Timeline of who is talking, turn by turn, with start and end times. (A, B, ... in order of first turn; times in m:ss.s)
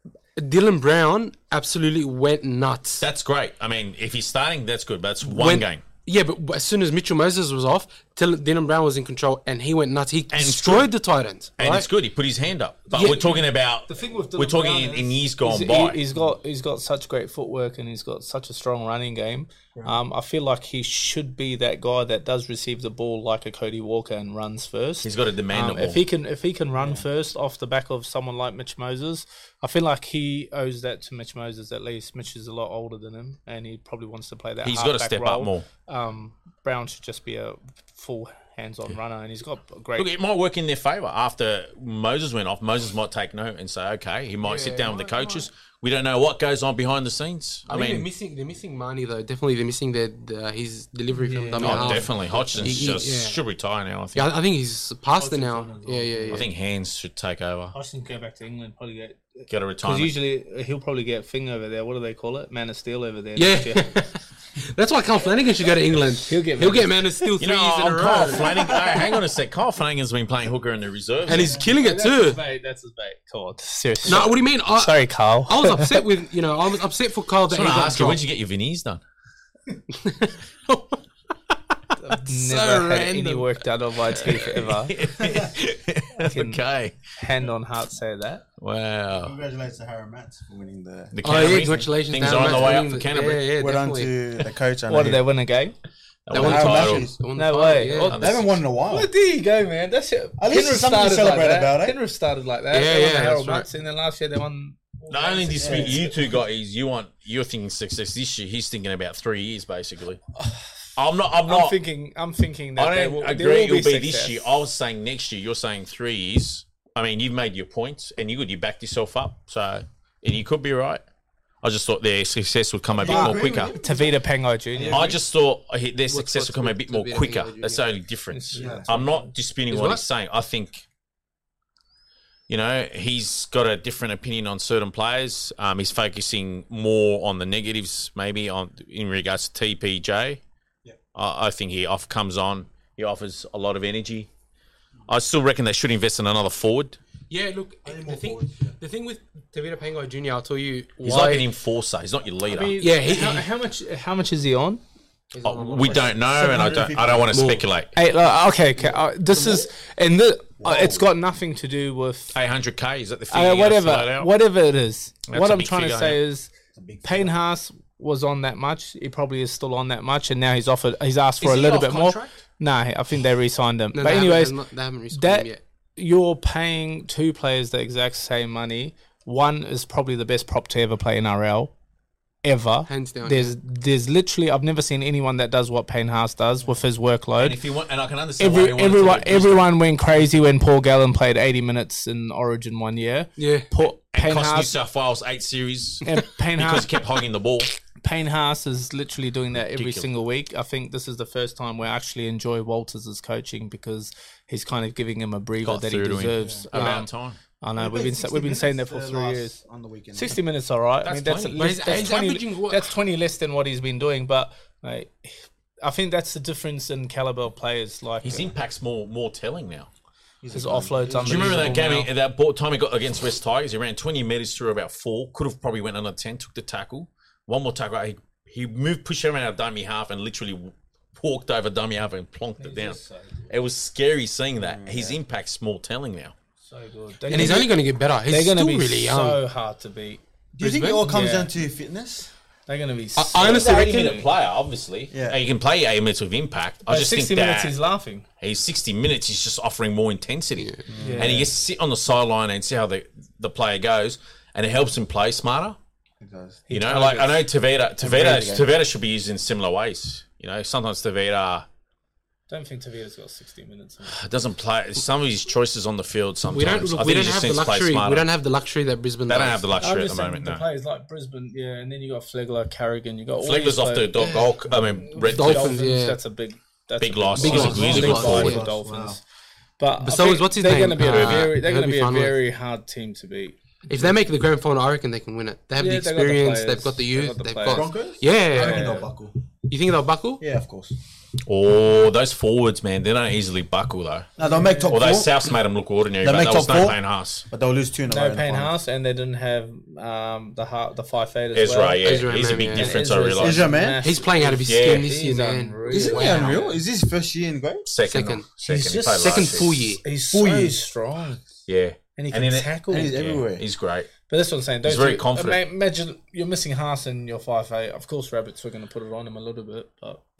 0:00.4-0:03.0 A
0:03.0-0:05.8 B
0:05.2-0:11.9 A
0:10.3-0:10.9 B
0:11.6-0:16.0 B
0:13.0-0:40.1 C
0:25.0-0:26.0 B
0:26.8-0:27.0 D
0:34.6-0:35.6 B
0:40.0-0:48.0 B
0:44.4-0:45.4 A
0:47.7-0:53.4 A
0:51.2-0:52.4 D
0:51.4-0:52.0 C
0:51.6-0:54.3 B
0:54.1-0:56.5 A
0:55.2-0:56.5 C
0:56.3-0:57.7 B
0:57.7-1:03.9 C
0:59.5-1:00.1 B
1:03.4-1:04.1 A
1:04.6-1:08.7 A
1:06.3-1:07.0 C
1:07.4-1:11.6 B
1:11.2-1:12.4 A
1:11.4-1:16.0 C
1:14.0-1:18.2 A
1:17.5-1:19.0 B
1:19.9-1:21.0 A
1:22.0-1:24.9 C
1:22.4-1:23.4 A
1:24.2-1:27.0 B
1:25.2-1:25.5 D
1:26.2-1:26.6 C
1:27.2-1:28.4 C
1:28.6-1:29.3 B
1:29.2-1:32.7 D
1:31.1-1:33.4 B
1:31.2-1:34.1 A
1:33.6-1:35.2 D
1:34.9-1:35.7 C
1:36.2-1:37.1 B
1:36.3-1:38.2 A
1:36.3-1:37.2 D
1:37.3-1:46.4 C
1:38.0-1:38.5 B
1:38.1-1:39.1 D
1:40.4-1:42.0 D
1:42.7-1:43.7 A
1:45.1-1:50.2 B
1:45.6-1:46.0 D
1:50.4-1:50.6 C
1:51.0-1:51.8 B
1:51.5-1:54.5 C
1:52.8-2:01.0 B
2:01.6-2:03.7 B
2:02.9-2:04.2 D
2:03.0-2:05.2 C
2:04.7-2:05.2 D
2:04.8-2:10.8 B
2:06.1-2:07.8 A
2:08.3-2:09.3 C
2:08.5-2:08.9 D
2:09.7-2:10.0 A
2:12.5-2:20.4 B
2:21.1-2:24.3 B
2:25.1-2:27.0 B
2:27.3-2:31.4 A
2:27.8-2:28.8 D
2:31.0-2:32.8 B
2:32.4-2:34.8 C
2:32.8-2:33.5 A
2:35.3-2:36.2 A
2:35.4-2:37.9 B
2:36.3-2:37.3 D
2:37.3-2:37.6 A
2:37.9-2:42.4 C
2:38.8-2:39.6 D
2:40.6-2:41.1 D
2:42.3-2:44.3 B
2:43.3-2:46.5 C
2:45.3-2:46.2 B
2:46.7-2:47.3 D
2:47.0-2:54.6 C
2:51.4-2:52.4 B
2:53.9-2:55.6 A
2:55.1-3:01.7 C
3:02.4-3:07.6 C
3:02.9-3:03.5 A
3:07.4-3:09.7 B
3:08.4-3:14.7 C
3:13.4-3:13.7 A
3:14.1-3:17.7 B
3:16.0-3:16.9 C
3:18.0-3:27.1 C
3:19.6-3:20.1 B
3:25.6-3:27.4 B
3:26.4-3:26.7 D
3:27.6-3:29.6 C
3:27.8-3:30.4 D
3:30.1-3:38.5 C
3:31.0-3:31.8 B
3:31.6-3:32.9 A
3:38.2-3:39.9 B
3:40.4-3:41.9 D
3:40.5-3:42.1 C
3:41.2-3:56.3 B
3:52.6-3:53.5 C
3:54.6-3:55.2 D
3:56.6-4:00.2 C
3:57.3-3:59.4 A
4:00.5-4:02.3 D
4:00.6-4:01.0 A
4:00.9-4:01.5 C
4:02.7-4:04.3 C
4:03.2-4:04.2 A
4:03.4-4:07.8 B
4:05.1-4:05.4 D
4:06.9-4:08.2 C
4:08.4-4:15.8 B
4:10.9-4:11.5 D
4:11.0-4:11.5 C
4:16.2-4:16.6 D
4:16.7-4:17.4 C
4:16.7-4:21.6 B
4:18.0-4:18.7 D
4:22.5-4:24.2 C
4:24.1-4:28.3 B
4:26.5-4:29.7 A
4:29.3-4:30.6 B
4:29.8-4:34.1 C
4:33.4-4:35.8 B
4:34.2-4:34.5 A
4:34.7-4:39.2 C
4:35.2-4:36.2 A
4:37.0-4:38.6 B
4:37.4-4:38.6 A
4:37.4-4:39.2 D
4:39.8-4:44.1 C
4:40.0-4:42.4 A
4:41.1-4:41.5 B
4:43.9-4:49.1 A
4:45.8-4:47.9 C
4:47.7-4:49.4 D
4:48.5-4:49.1 C
4:49.7-4:50.4 A
4:50.4-4:50.9 D
4:51.4-4:54.3 B
4:54.4-4:55.5 D
4:54.4-4:54.9 C
4:54.8-4:57.4 B
4:56.2-4:58.8 D
4:58.1-5:02.0 C
5:01.5-5:03.7 B
5:02.0-5:03.0 A
5:02.7-5:06.8 C
5:03.4-5:04.1 D
5:04.0-5:06.6 A
5:04.6-5:05.1 B
5:05.9-5:07.8 D
5:07.8-5:09.8 B
5:08.1-5:08.5 A
5:08.6-5:11.4 C
5:09.0-5:10.0 A
5:10.3-5:10.8 D
5:11.7-5:14.1 B
5:12.2-5:13.2 C
5:12.9-5:13.6 D
5:14.3-5:20.2 C
5:14.8-5:15.6 B